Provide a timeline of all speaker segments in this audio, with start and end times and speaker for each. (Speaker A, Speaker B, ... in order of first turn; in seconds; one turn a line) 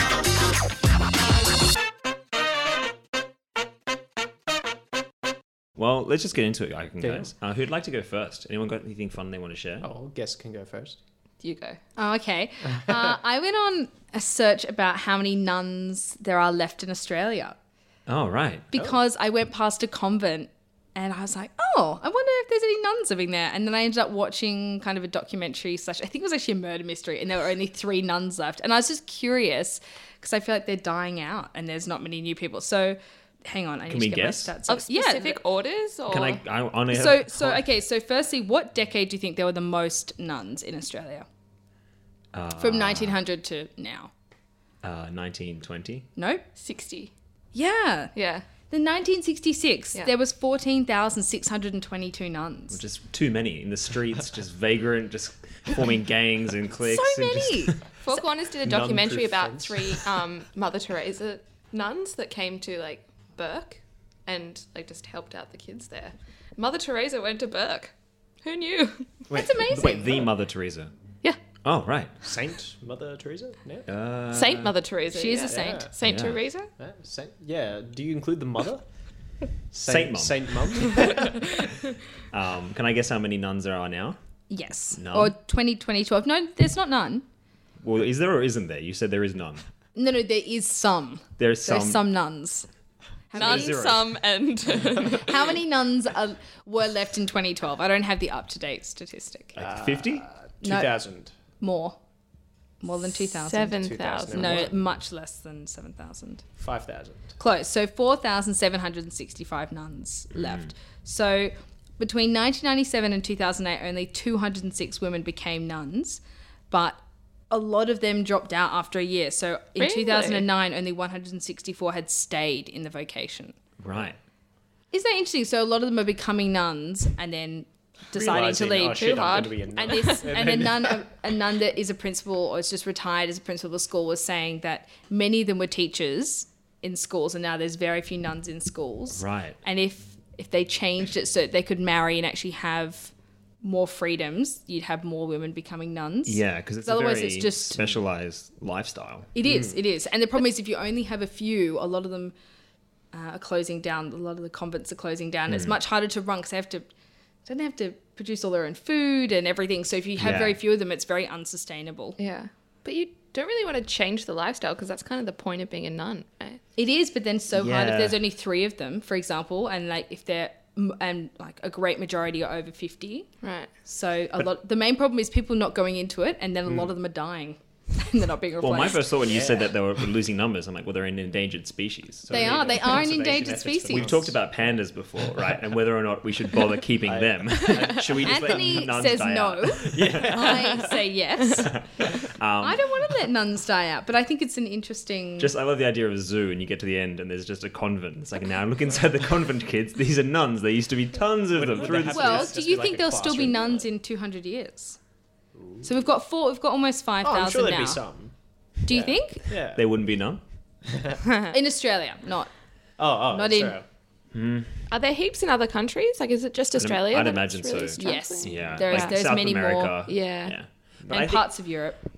Speaker A: 5.8-9.9
Speaker B: 7.0-7.3
Speaker B: 9.8-11.0
Speaker C: 11.4-11.8
Speaker D: 12.0-17.6
Speaker A: 18.1-18.7
Speaker D: 18.7-35.4
Speaker A: 33.9-34.5
Speaker C: 34.7-36.4
Speaker A: 36.1-37.6
Speaker D: 36.9-41.3
Speaker A: 42.3-43.2
Speaker D: 42.6-44.1
Speaker A: 44.8-46.1
Speaker D: 46.2-46.4
Speaker C: 46.6-47.1
Speaker D: 47.5-52.8
Speaker C: 48.1-48.5
Speaker A: 52.7-57.8
Speaker D: 56.8-58.2
Speaker C: 58.0-69.2
Speaker B: 58.6-60.0
Speaker A: 69.3-70.9
Speaker D: 69.3-70.3
Speaker A: 71.6-72.2
Speaker B: 72.2-73.9
Speaker A: 73.9-74.8
Speaker C: 74.3-76.7
Speaker D: 75.1-75.9
Speaker B: 75.5-75.9
Speaker A: 76.0-76.4
Speaker B: 76.8-78.8
Speaker B: 79.7-81.5
Speaker A: 79.8-81.1
Speaker A: 82.3-84.2
Speaker D: 84.5-87.2
Speaker A: 84.9-85.3
Speaker A: 87.8-89.6
Speaker D: 90.0-92.7
Speaker A: 91.4-92.0
Speaker D: 93.3-93.8
Speaker A: 93.3-94.2
Speaker C: 93.3-95.5
Speaker D: 95.2-99.6
Speaker A: 99.5-100.3
Speaker B: 99.6-101.4
Speaker D: 100.6-101.0
Speaker D: 101.6-102.0
Speaker D: 102.8-106.5
Speaker C: 103.0-104.7
Speaker B: 103.8-104.8
Speaker B: 106.6-107.4
Speaker D: 107.4-123.6
Speaker A: 110.4-110.7
Speaker C: 119.8-120.5
Speaker A: 123.8-124.2
Speaker D: 124.9-129.3
Speaker B: 128.1-131.1
Speaker C: 128.8-130.4
Speaker D: 129.9-147.9
Speaker A: 139.1-139.6
Speaker A: 146.2-149.3
Speaker D: 149.3-152.3
Speaker B: 149.4-149.8
Speaker D: 153.1-156.9
Speaker A: 155.5-155.8
Speaker D: 157.4-162.2
Speaker A: 160.2-160.6
Speaker C: 162.2-166.6
Speaker D: 166.8-173.3
Speaker A: 167.5-168.2
Speaker C: 173.4-173.7
Speaker D: 173.8-179.1
Speaker A: 178.6-183.0
Speaker B: 179.2-179.7
Speaker B: 182.3-184.4
Speaker D: 182.3-184.3
Speaker A: 183.9-190.9
Speaker B: 187.1-188.9
Speaker D: 188.2-191.9
Speaker B: 189.9-190.8
Speaker A: 191.7-192.9
Speaker D: 192.6-195.5
Speaker A: 195.4-202.5
Speaker B: 201.6-203.9
Speaker D: 202.1-205.0
Speaker B: 205.6-205.9
Speaker D: 205.8-208.0
Speaker B: 207.2-208.3
Speaker D: 208.9-209.5
Speaker B: 208.9-209.8
Speaker A: 209.5-210.4
Speaker B: 210.9-211.2
Speaker D: 211.4-212.5
Speaker B: 213.0-213.8
Speaker D: 213.3-213.8
Speaker A: 214.3-214.9
Speaker C: 214.9-219.2
Speaker A: 216.8-221.5
Speaker D: 218.0-220.0
Speaker C: 220.1-220.6
Speaker D: 221.1-222.0